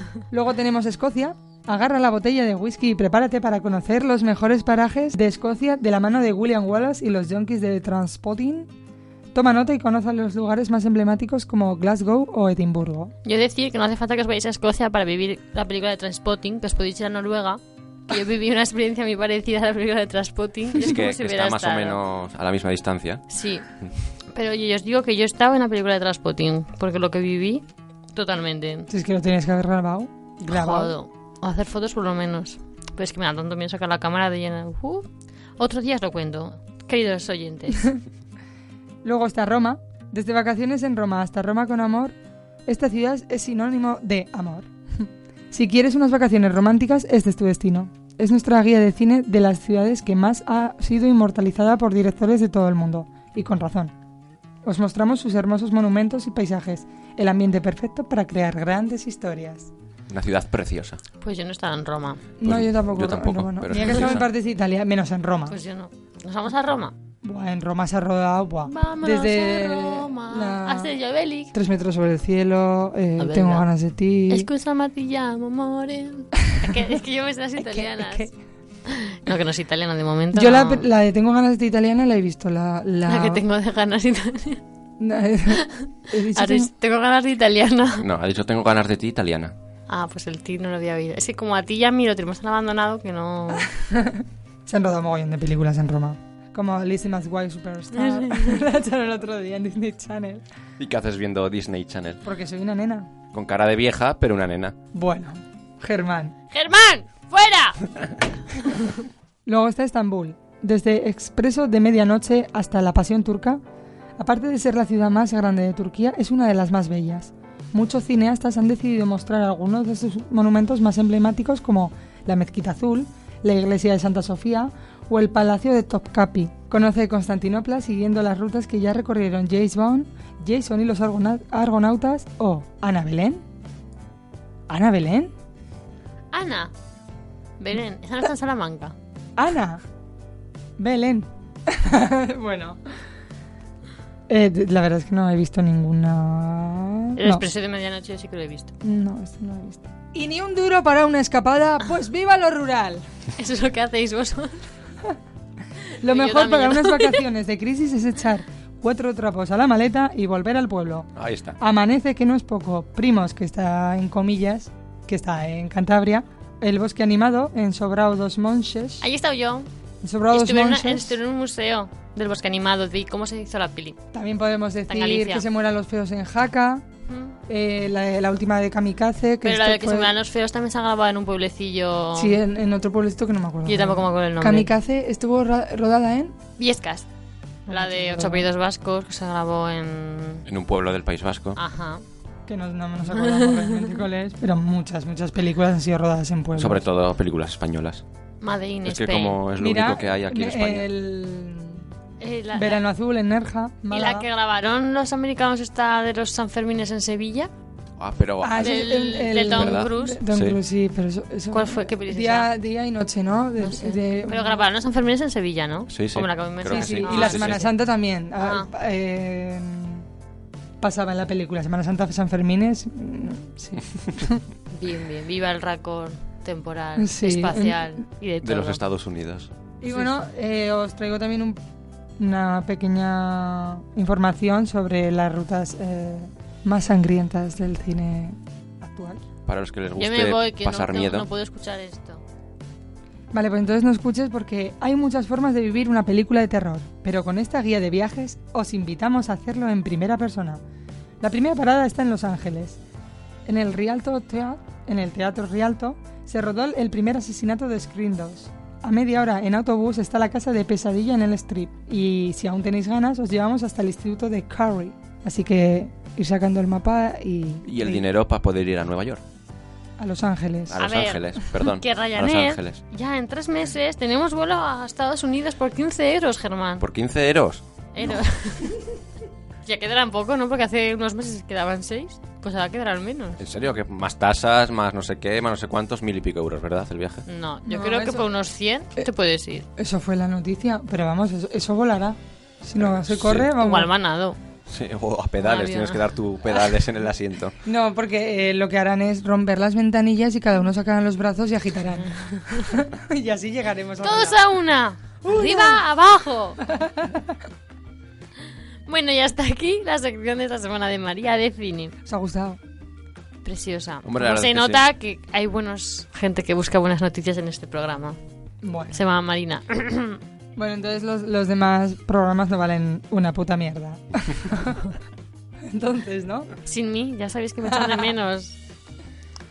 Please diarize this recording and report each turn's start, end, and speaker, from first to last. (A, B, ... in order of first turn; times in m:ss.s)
0:00.3-0:08.7 A
0:09.3-0:13.1 A
0:13.2-0:22.0 B
0:20.8-0:23.2 C
0:23.3-0:23.7 B
0:24.2-0:28.9 B
0:28.9-0:31.0 A
0:30.5-0:38.0 B
0:39.0-0:42.1 A
0:42.6-0:53.9 A
0:54.6-0:59.7 A
1:00.1-1:01.0 C
1:01.2-1:02.3 B
1:02.4-1:05.6 A
1:02.4-1:04.2 C
1:03.8-1:04.1 B
1:05.5-1:06.9 B
1:07.2-1:10.9 A
1:08.6-1:11.5 B
1:11.5-1:14.5 A
1:13.2-1:13.6 B
1:14.3-1:18.3 B
1:17.6-1:18.3 A
1:18.9-1:20.9 B
1:20.3-1:23.4 A
1:23.0-1:24.6 B
1:25.0-1:26.7 A
1:25.5-1:28.0 B
1:28.0-1:29.5 C
1:29.9-1:33.7 B
1:33.6-1:40.4 A
1:37.9-1:38.6 B
1:40.8-1:42.2 C
1:42.2-1:43.1 A
1:43.3-1:44.8 C
1:44.9-1:46.3 A
1:46.5-1:47.8 B
1:48.6-1:48.8 B
1:49.4-1:53.6 A
1:54.2-2:13.4 A
2:14.7-2:15.3 A
2:16.3-2:16.7 B
2:17.6-2:18.9 B
2:19.4-2:19.8 A
2:20.8-2:22.8 A
2:24.3-2:27.4 A
2:27.2-2:28.7 B
2:28.8-2:33.0 A
2:33.4-2:34.6 B
2:35.8-2:37.2 B
2:36.0-2:49.0 A
2:41.2-2:41.6 C
2:49.0-2:49.7 B
2:50.0-2:51.2 A
2:50.3-2:54.0 B
2:54.1-2:56.8 A
2:54.9-2:55.4 B
2:57.1-2:57.4 B
2:57.5-3:00.1 A
2:59.4-3:02.4 B
3:02.1-3:06.4 A
3:03.6-3:04.7 B
3:06.6-3:07.1 B
3:07.7-3:08.5 A
3:07.7-3:10.4 B
3:10.4-3:11.6 C
3:11.5-3:12.0 B
3:12.4-3:16.8 A
3:13.1-3:14.0 B
3:16.6-3:18.0 C
3:18.4-3:19.4 B
3:18.8-3:20.9 C
3:19.5-3:21.8 A
3:22.2-3:22.8 B
3:22.5-3:24.3 A
3:23.9-3:27.5 B
3:28.0-3:30.6 C
3:28.4-3:34.6 A
3:28.6-3:30.2 B
3:31.5-3:32.5 B
3:33.6-3:37.6 B
3:35.9-3:37.7 C
3:36.6-3:40.0 A
3:38.4-3:38.7 B
3:40.8-3:44.4 A
3:44.7-3:48.8 B
3:47.0-3:47.9 A
3:48.4-3:49.5 C
3:49.8-3:51.6 A
3:52.2-3:59.2 A
3:59.5-4:01.3 C
4:00.0-4:02.2 B
4:03.3-4:10.6 A
4:11.2-4:12.8 A
4:13.4-4:28.1 A
4:27.6-4:29.2 C
4:30.0-4:30.8 A
4:30.7-4:32.8 C
4:30.8-4:36.8 B
4:36.8-4:37.6 C
4:37.9-4:38.8 B
4:39.6-4:43.4 B
4:43.4-4:47.2 C
4:47.2-4:49.7 B
4:47.6-4:48.3 A
4:49.8-4:53.9 A
4:52.8-4:53.5 C
4:53.5-4:54.4 B
4:54.7-4:57.6 C
4:55.4-4:56.7 B
4:57.6-5:04.4 A
5:02.2-5:02.7 B
5:04.0-5:06.6 B
5:05.2-5:05.8 A
5:06.6-5:07.3 A
5:08.8-5:12.0 B
5:12.0-5:12.6 A
5:13.4-5:18.2 B
5:14.0-5:14.8 C
5:18.6-5:19.0 A
5:18.9-5:20.2 B
5:20.6-5:25.0 A
5:25.6-5:26.5 A
5:26.6-5:28.6 B
5:27.6-5:28.1 A